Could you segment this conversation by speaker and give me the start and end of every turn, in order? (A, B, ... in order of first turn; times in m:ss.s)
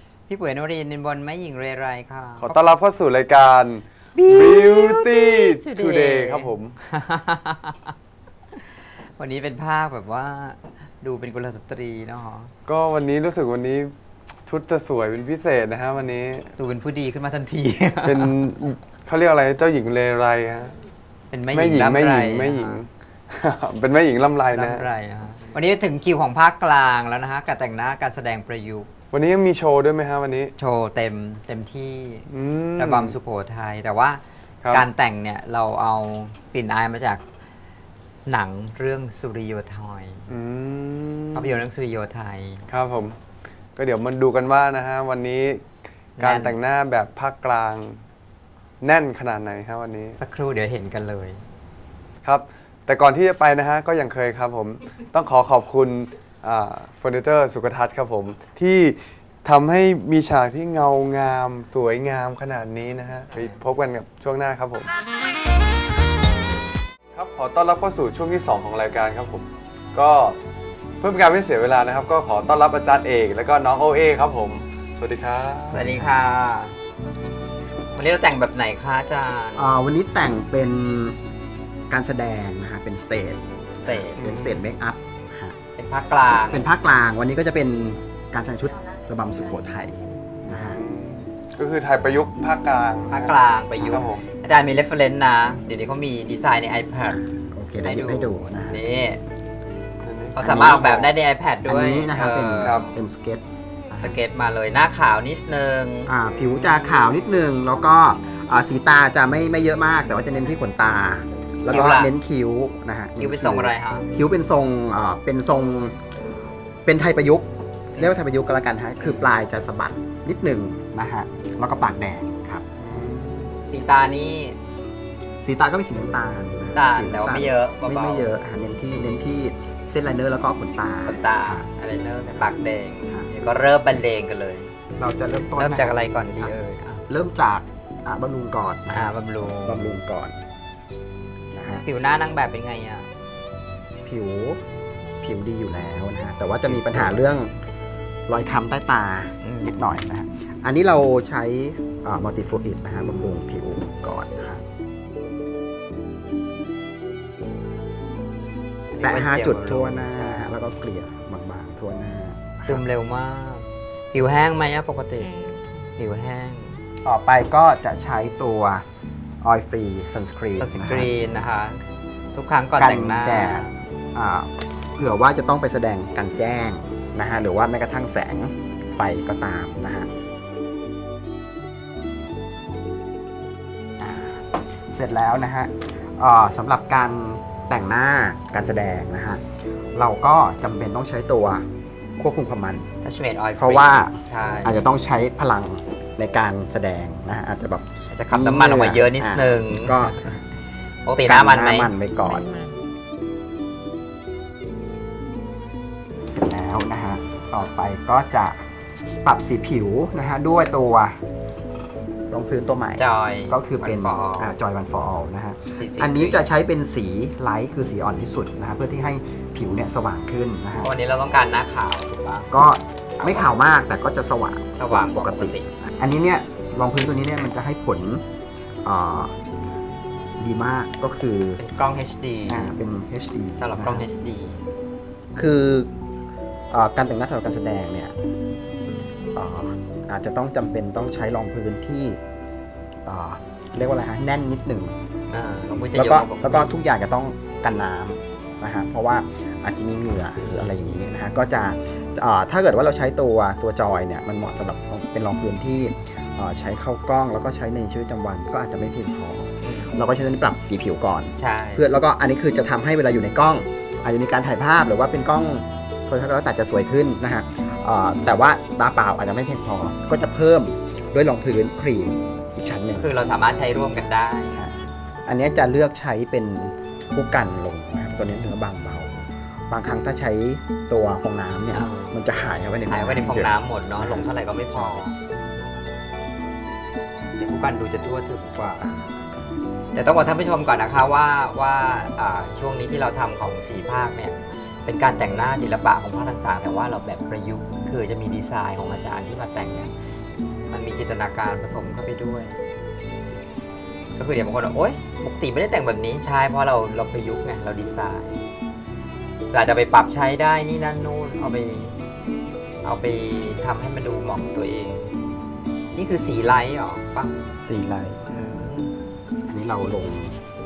0:00.3-0:02.6 A
0:02.4-0:06.8 B
0:04.1-0:07.9 A
0:09.0-0:12.5 A
0:12.6-0:13.9 B
0:14.4-0:16.5 B
0:16.6-0:18.3 A
0:18.0-0:20.8 B
0:21.3-0:22.8 A
0:21.5-0:24.8 B
0:24.5-0:28.9 A
0:29.1-0:30.5 B
0:30.6-0:34.2 A
0:32.3-0:33.2 B
0:34.7-0:37.2 A
0:38.2-0:40.3 A
0:40.3-0:41.6 B
0:41.3-0:42.6 A
0:42.7-0:43.2 B
0:43.8-0:45.6 B
0:46.2-0:46.6 A
0:46.2-0:48.0 B
0:48.8-0:50.2 B
0:50.2-0:51.4 A
0:52.2-1:04.9 B
1:07.1-1:10.4 B
1:11.0-1:15.9 B
1:15.7-1:16.4 C
1:15.7-1:16.7 A
1:17.9-1:19.7 A
1:19.6-1:21.2 C
1:21.9-1:25.6 C
1:23.8-1:24.2 A
1:24.2-1:24.6 B
1:25.8-1:26.7 A
1:26.5-1:30.8 C
1:30.5-1:33.3 B
1:33.1-1:37.2 A
1:33.8-1:34.2 C
1:33.9-1:34.2 B
1:37.1-1:38.8 C
1:37.8-1:39.2 A
1:40.0-1:41.1 B
1:40.3-1:42.8 A
1:40.4-1:41.1 C
1:41.6-1:44.2 C
1:42.6-1:42.9 B
1:44.0-1:46.1 A
1:46.0-1:56.0 C
1:46.6-1:47.2 B
1:51.7-1:52.1 A
1:53.2-1:54.0 A
1:56.8-2:02.6 C
2:02.8-2:03.5 B
2:03.7-2:04.6 A
2:05.4-2:11.7 C
2:06.7-2:08.4 A
2:11.0-2:14.7 A
2:12.3-2:12.6 C
2:15.0-2:16.6 C
2:15.6-2:17.0 A
2:17.1-2:19.1 C
2:18.9-2:20.0 A
2:19.6-2:20.4 C
2:21.5-2:21.8 C
2:21.8-2:23.1 A
2:24.0-2:24.6 C
2:25.2-2:27.5 C
2:26.6-2:27.2 A
2:28.3-2:34.6 C
2:29.4-2:29.8 A
2:38.9-2:40.6 A
2:39.0-2:42.8 C
2:42.6-2:46.8 A
2:47.0-2:48.8 C
2:49.4-2:51.1 C
2:50.6-2:51.8 A
2:52.3-2:53.8 A
2:52.8-3:00.1 C
3:04.0-3:11.6 C
3:12.2-3:12.9 C
3:13.0-3:14.8 A
3:13.6-3:20.3 C
3:18.1-3:20.4 A
3:21.0-3:21.9 A
3:21.2-3:22.7 C
3:26.3-3:28.6 C
3:29.2-3:31.2 C
3:32.3-3:40.9 C
3:33.0-3:34.6 A
3:35.8-3:36.5 A
3:40.8-3:42.5 A
3:42.5-3:48.2 C
3:43.2-3:43.6 A
3:44.8-3:45.7 A
3:48.8-3:49.3 C
3:50.4-3:51.6 C
3:51.6-3:52.8 A
3:52.5-3:54.1 C
3:53.6-3:54.6 A
3:55.3-3:55.9 C
3:56.7-3:58.1 C
3:59.3-4:02.2 C
4:03.0-4:04.9 C
4:05.3-4:06.8 A
4:05.9-4:33.1 C
4:19.6-4:19.9 A
4:21.4-4:21.9 A
4:33.0-4:34.6 A
4:34.5-4:45.1 C
4:41.7-4:42.2 A
4:42.9-4:45.2 A
4:47.4-4:48.8 A
4:48.8-4:49.1 C
4:49.9-4:59.9 A
5:00.7-5:02.6 A
5:04.1-5:08.4 A
5:09.5-5:12.0 A
5:12.8-5:15.2 A
5:15.9-5:17.3 A
5:17.6-5:18.2 C
5:18.2-5:18.9 A
5:19.5-5:20.4 C